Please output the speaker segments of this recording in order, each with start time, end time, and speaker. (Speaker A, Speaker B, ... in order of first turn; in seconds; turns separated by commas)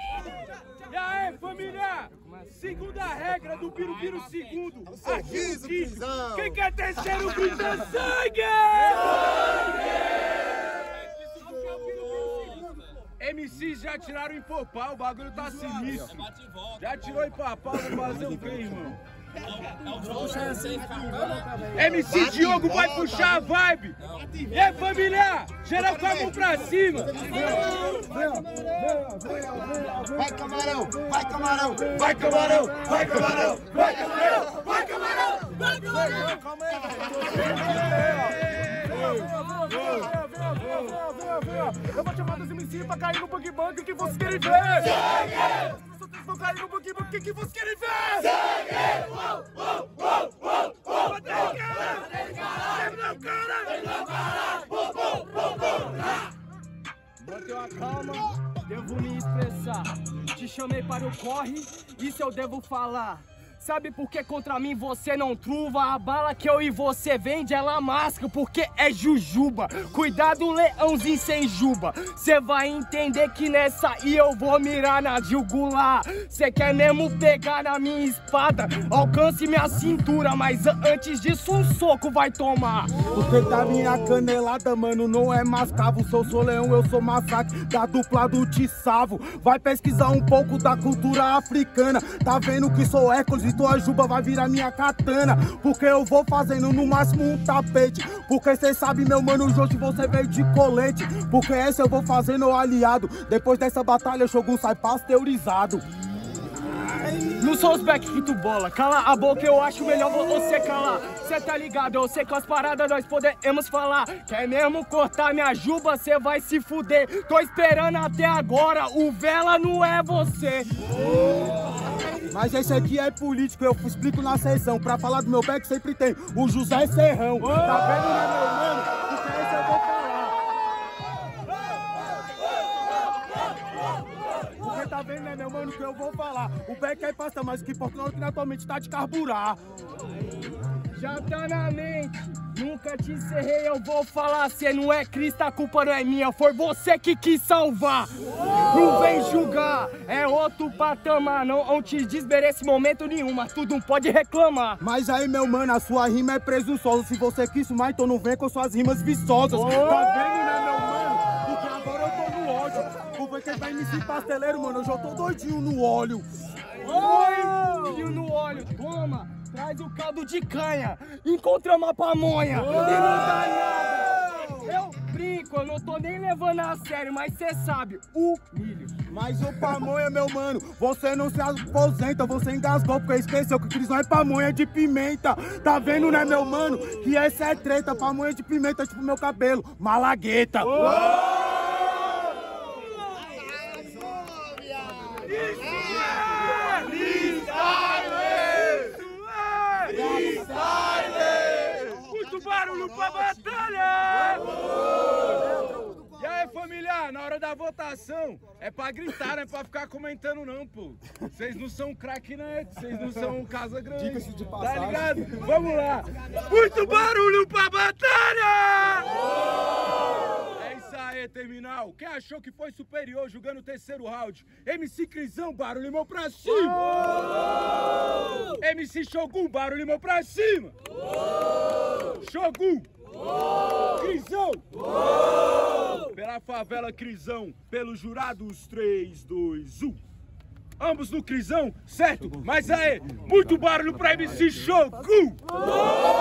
Speaker A: 0.8-11.1, Speaker B: 5.5-6.3, Speaker A: 13.2-19.0, Speaker B: 19.9-21.7, Speaker A: 21.7-28.2, Speaker B: 22.4-22.9, Speaker B: 27.2-33.8, Speaker A: 31.8-36.4, Speaker A: 37.4-40.9, Speaker C: 37.8-38.3, Speaker D: 41.0-56.1, Speaker D: 57.2-83.0, Speaker C: 83.0-105.8, Speaker D: 107.2-120.7, Speaker C: 122.3-130.3, Speaker C: 134.6-139.6, Speaker D: 140.9-154.8, Speaker C: 154.8-166.3, Speaker D: 159.5-160.2, Speaker D: 166.8-178.9, Speaker A: 172.8-173.1, Speaker C: 172.9-174.5, Speaker C: 179.1-191.1, Speaker B: 193.3-195.2, Speaker A: 195.2-204.6, Speaker B: 200.2-200.7, Speaker B: 202.1-202.9, Speaker A: 206.0-219.3, Speaker C: 214.0-215.4, Speaker A: 220.5-227.4, Speaker A: 228.5-230.7, Speaker A: 232.2-232.9, Speaker A: 233.9-234.6, Speaker A: 236.1-240.0, Speaker A: 240.8-245.4